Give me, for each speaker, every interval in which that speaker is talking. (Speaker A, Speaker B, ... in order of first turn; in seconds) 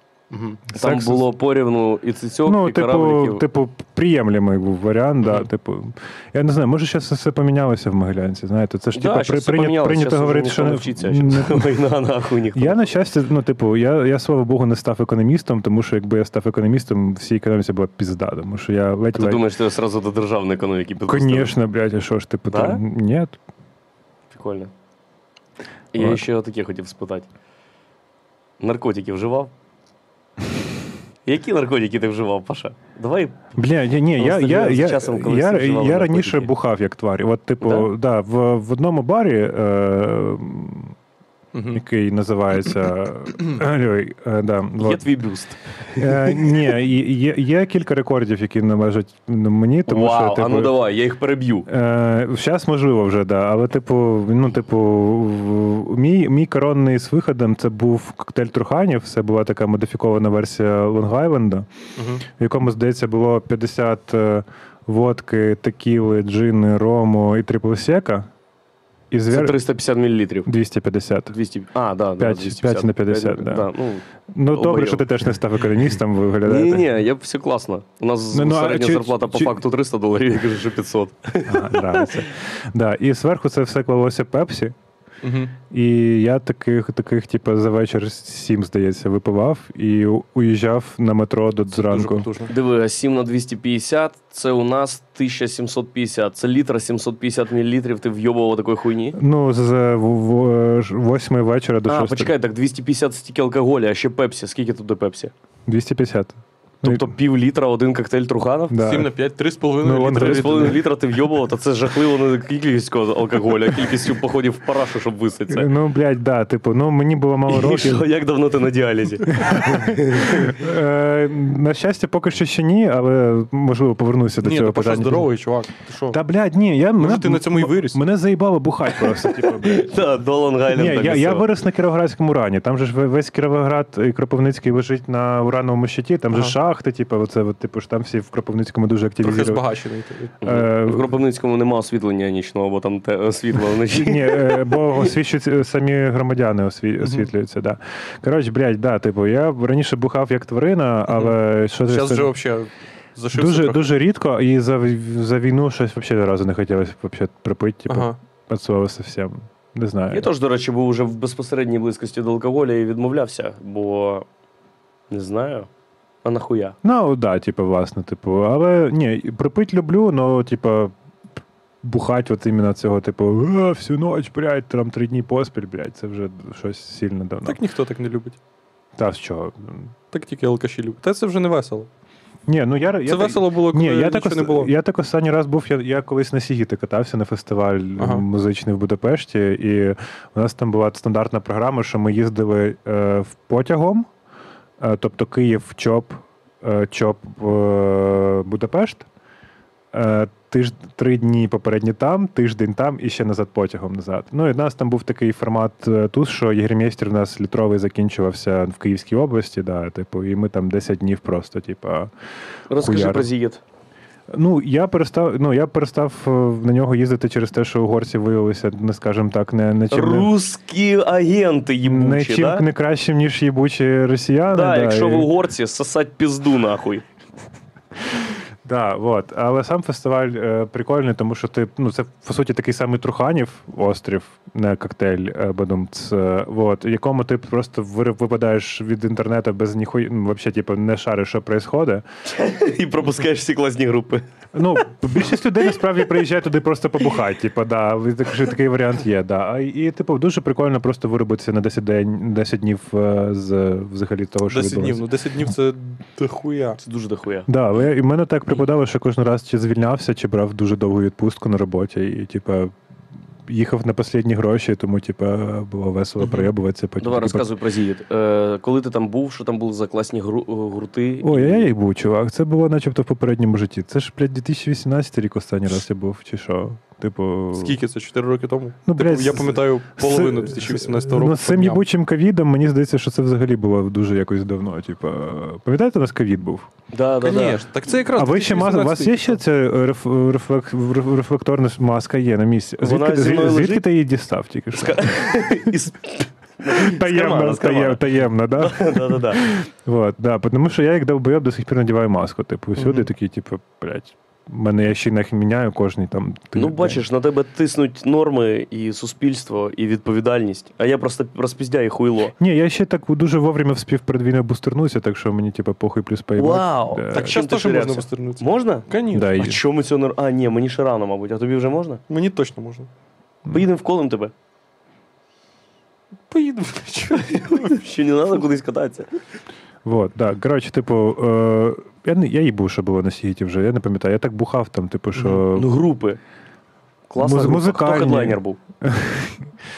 Speaker A: 0.3-0.6, 41.5-41.8, 62.0-62.2, 85.2-85.5, 91.7-92.5, 108.8-110.8, 124.4-126.2, 127.0-128.0, 139.2-140.3, 147.0-147.3, 151.9-153.9, 157.9-158.2, 177.4-178.4, 180.1-181.9, 183.1-184.7, 188.0-188.2, 254.5-256.8, 266.2-266.5, 277.5-281.8, 287.2-289.4, 317.1-319.5, 322.1-322.9, 326.3-327.7
Speaker B: 0.7-1.3, 2.4-11.8, 12.5-19.4, 21.1-23.4, 25.9-26.2, 33.5-40.9, 41.7-45.0, 46.0-50.7, 51.7-61.7, 62.2-68.3, 69.1-69.6, 70.5-71.3, 72.2-73.7, 74.3-76.9, 78.3-79.6, 81.4-84.7, 85.7-92.3, 99.1-102.3, 105.7-107.1, 108.7-109.1, 109.8-110.8, 115.5-118.1, 119.3-125.3, 126.1-130.0, 130.7-139.6, 140.4-141.0, 143.8-152.3, 153.3-160.3, 166.8-170.9, 171.8-177.6, 179.0-179.9, 182.5-194.1, 194.8-199.1, 199.9-212.1, 212.7-213.3, 214.3-220.3, 221.8-225.3, 228.6-242.0, 244.5-255.0, 257.5-262.7, 263.4-267.4, 271.2-277.8, 278.9-286.7, 288.1-295.4, 296.7-307.0, 312.4-317.4, 319.1-319.6, 329.8-335.7, 337.2-339.5
Speaker C: 0.7-3.4, 8.9-12.9, 19.1-21.5, 22.5-22.8, 24.3-24.7, 25.9-27.3, 28.6-29.5, 31.2-33.4, 34.2-36.5, 37.6-37.9, 44.8-46.4, 49.9-51.7, 69.3-70.5, 71.3-75.0, 76.4-82.2, 92.5-99.2, 101.9-105.3, 106.8-108.8, 110.1-115.7, 117.5-120.5, 129.6-131.5, 140.4-144.7, 160.1-164.3, 165.1-165.7, 166.2-166.8, 212.7-213.6, 219.9-222.6, 224.5-227.0, 242.3-244.2, 256.8-257.5, 267.0-271.7, 286.9-287.6, 292.8-293.8, 294.7-298.0, 298.6-299.4, 306.5-312.3, 316.4-322.0, 323.5-324.3, 327.1-329.1, 335.5-336.2, 337.1-338.6